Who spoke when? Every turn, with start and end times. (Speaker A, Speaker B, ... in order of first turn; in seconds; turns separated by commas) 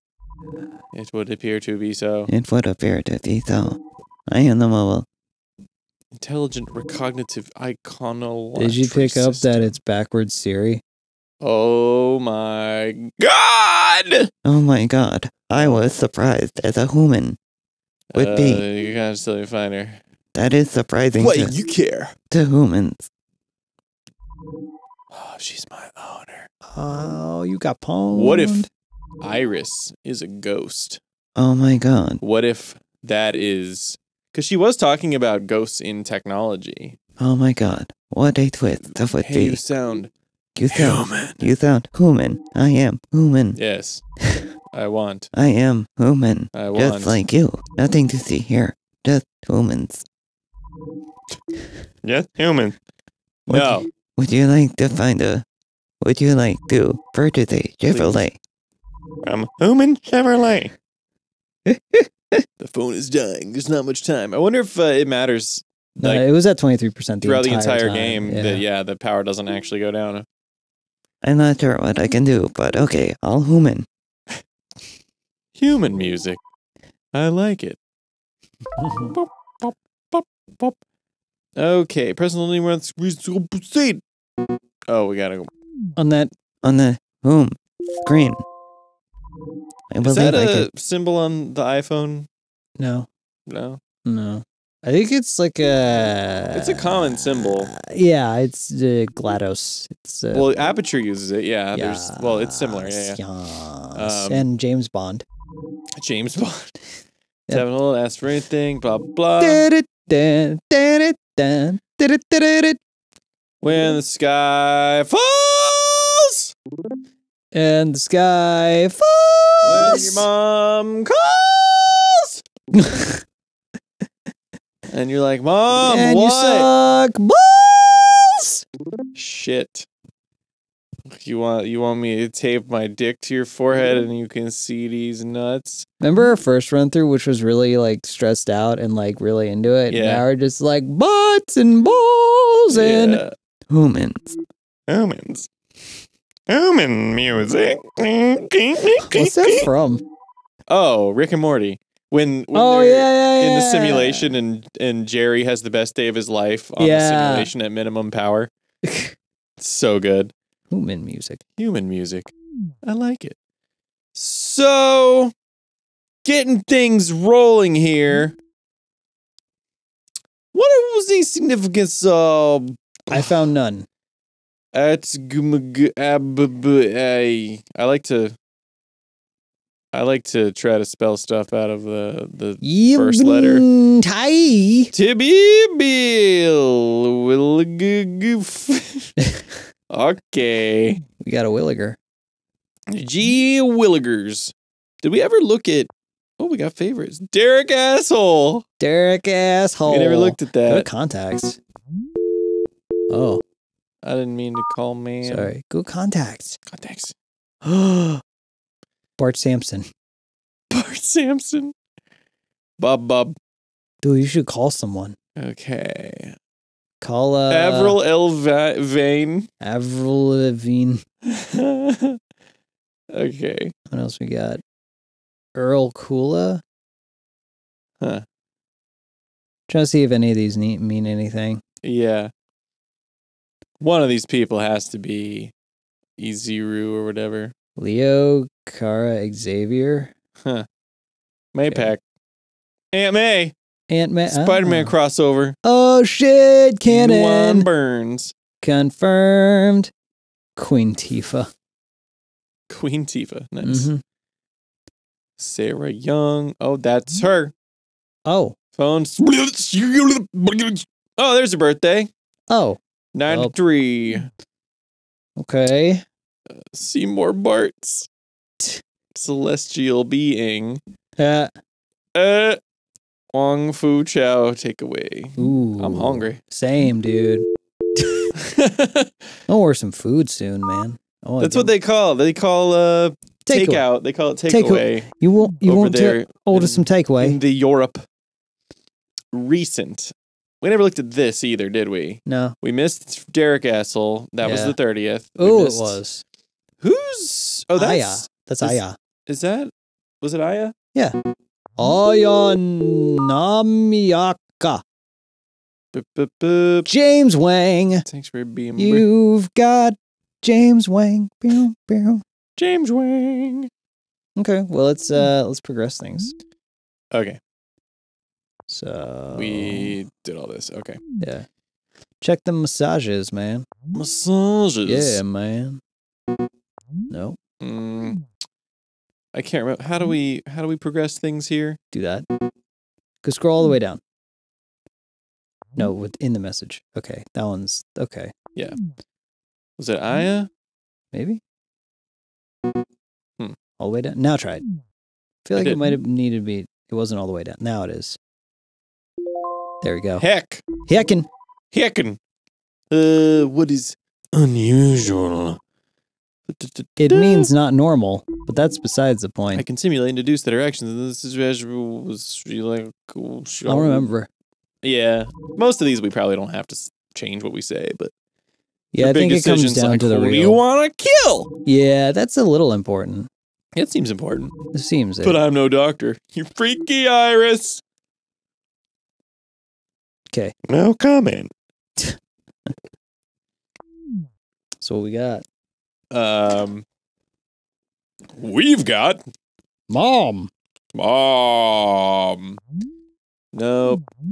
Speaker A: 0.9-2.3, Speaker B: 2.3-5.1, Speaker A: 6.2-9.8, Speaker C: 8.6-10.8, Speaker A: 11.4-14.3, Speaker B: 14.4-17.4, Speaker A: 15.6-15.8, Speaker A: 18.1-20.0, Speaker B: 18.1-18.6, Speaker B: 20.3-21.5, Speaker A: 21.2-22.1, Speaker B: 22.3-23.1, Speaker A: 25.1-26.5, Speaker C: 26.7-28.7, Speaker A: 28.1-28.7, Speaker A: 29.2-31.0, Speaker B: 31.4-32.2, Speaker A: 32.2-37.0, Speaker B: 37.2-39.6, Speaker A: 38.8-40.1, Speaker B: 40.5-43.6, Speaker A: 40.7-41.5, Speaker A: 43.5-44.0, Speaker A: 44.7-45.3, Speaker B: 45.3-50.0, Speaker A: 46.5-47.2, Speaker A: 52.0-52.8, Speaker A: 53.5-53.9, Speaker B: 53.5-55.4, Speaker B: 56.0-58.4, Speaker A: 57.9-58.3, Speaker A: 59.2-60.7, Speaker C: 61.7-62.4, Speaker A: 62.6-66.2, Speaker C: 66.0-68.6, Speaker A: 67.2-70.2, Speaker B: 71.2-73.9, Speaker A: 75.6-76.4, Speaker A: 77.1-77.8, Speaker C: 78.8-79.1, Speaker A: 79.1-80.8, Speaker A: 81.6-84.0, Speaker A: 84.9-85.5, Speaker C: 86.0-86.3, Speaker B: 86.6-88.4, Speaker B: 89.9-90.6, Speaker A: 90.0-92.3, Speaker C: 90.2-90.7, Speaker C: 92.8-93.1, Speaker A: 93.5-93.8, Speaker C: 94.0-100.6, Speaker A: 96.5-97.7, Speaker A: 100.3-103.2, Speaker C: 101.7-105.2, Speaker A: 103.9-104.5, Speaker A: 106.0-106.8, Speaker A: 107.5-109.7, Speaker C: 109.4-112.8, Speaker A: 113.6-116.5, Speaker C: 117.5-120.3, Speaker A: 119.6-122.4, Speaker C: 122.8-123.2, Speaker A: 124.9-126.7, Speaker C: 125.8-128.6, Speaker A: 129.1-129.9, Speaker A: 131.1-135.9, Speaker C: 136.0-143.2, Speaker A: 139.9-140.2, Speaker A: 142.7-143.3, Speaker B: 143.7-144.3, Speaker A: 144.9-145.5, Speaker A: 146.5-149.7, Speaker C: 149.1-150.0, Speaker A: 150.7-158.5, Speaker C: 152.5-154.3, Speaker C: 156.8-157.5, Speaker C: 158.8-159.2, Speaker A: 159.6-160.3, Speaker C: 160.7-161.4, Speaker A: 161.6-162.3, Speaker A: 162.8-163.4, Speaker A: 164.1-165.3, Speaker A: 166.2-168.4, Speaker A: 170.5-173.4, Speaker C: 173.1-173.9, Speaker A: 174.7-178.4, Speaker A: 179.9-183.7, Speaker C: 182.6-184.9, Speaker A: 184.9-189.1, Speaker A: 189.9-191.0, Speaker C: 191.2-192.0, Speaker A: 192.9-198.6, Speaker C: 198.8-201.6, Speaker A: 199.9-200.9, Speaker C: 203.1-203.4, Speaker A: 204.0-205.5, Speaker C: 205.2-206.6, Speaker A: 206.7-207.1, Speaker C: 207.6-208.2, Speaker C: 209.2-209.9, Speaker A: 210.7-211.7, Speaker A: 212.8-213.4, Speaker C: 214.0-215.2, Speaker A: 215.4-216.3, Speaker C: 217.0-218.0, Speaker A: 217.5-219.5, Speaker C: 219.6-221.0, Speaker A: 221.3-222.2, Speaker A: 223.1-223.7, Speaker C: 223.9-224.6, Speaker C: 225.6-226.6, Speaker C: 229.7-231.6, Speaker A: 231.8-232.3, Speaker A: 233.8-235.5, Speaker A: 236.2-237.5, Speaker C: 237.8-240.1, Speaker A: 241.5-242.0, Speaker A: 242.9-243.6, Speaker C: 243.9-244.9, Speaker A: 244.2-245.6, Speaker C: 245.6-247.7, Speaker A: 246.9-248.3, Speaker C: 248.6-249.9, Speaker C: 250.6-251.5, Speaker A: 252.7-253.9, Speaker C: 253.6-254.0, Speaker A: 255.4-257.5, Speaker C: 258.2-258.6, Speaker A: 258.8-262.1, Speaker C: 262.5-263.5, Speaker A: 263.1-264.3, Speaker C: 265.4-266.1, Speaker A: 266.7-268.1, Speaker A: 269.1-270.8, Speaker C: 271.2-271.5, Speaker A: 272.1-272.6, Speaker A: 273.3-276.4, Speaker C: 275.4-277.4, Speaker A: 278.4-279.1, Speaker C: 279.5-281.7, Speaker A: 281.4-285.1, Speaker C: 283.4-283.9, Speaker C: 284.4-287.4, Speaker A: 285.6-288.1, Speaker A: 289.3-296.0, Speaker C: 292.2-292.6, Speaker C: 294.4-294.8, Speaker C: 295.4-296.2, Speaker A: 296.8-300.8, Speaker C: 297.7-299.0, Speaker C: 301.8-304.8, Speaker A: 305.9-306.9, Speaker C: 306.9-308.1, Speaker A: 308.1-309.1, Speaker C: 308.8-312.2, Speaker A: 312.6-313.7, Speaker C: 314.4-316.3, Speaker A: 317.1-317.4, Speaker C: 318.7-319.9, Speaker A: 319.3-321.0, Speaker C: 321.2-321.4, Speaker C: 322.2-323.6, Speaker A: 323.9-325.2, Speaker C: 324.8-325.8, Speaker C: 327.1-327.4, Speaker A: 327.6-328.2, Speaker A: 329.3-331.8, Speaker C: 331.9-332.3, Speaker C: 333.2-334.0, Speaker C: 335.8-338.3, Speaker A: 339.8-340.5, Speaker C: 341.1-341.4, Speaker C: 343.8-344.6, Speaker C: 345.4-348.2, Speaker A: 345.6-346.0, Speaker C: 349.8-350.2, Speaker A: 350.2-350.7, Speaker C: 350.9-351.3, Speaker A: 351.7-352.2, Speaker A: 352.9-355.6, Speaker A: 356.5-357.5, Speaker C: 357.0-359.6, Speaker A: 359.5-364.1, Speaker C: 363.6-364.3, Speaker A: 364.8-368.1, Speaker C: 368.9-370.6, Speaker A: 369.0-371.5, Speaker C: 371.6-373.3, Speaker A: 373.8-374.6, Speaker C: 374.7-375.4, Speaker A: 375.2-377.8, Speaker A: 380.7-381.5, Speaker C: 384.8-385.4, Speaker A: 386.1-386.9, Speaker A: 388.4-389.2, Speaker C: 389.9-390.5, Speaker A: 390.9-392.6, Speaker A: 393.5-394.0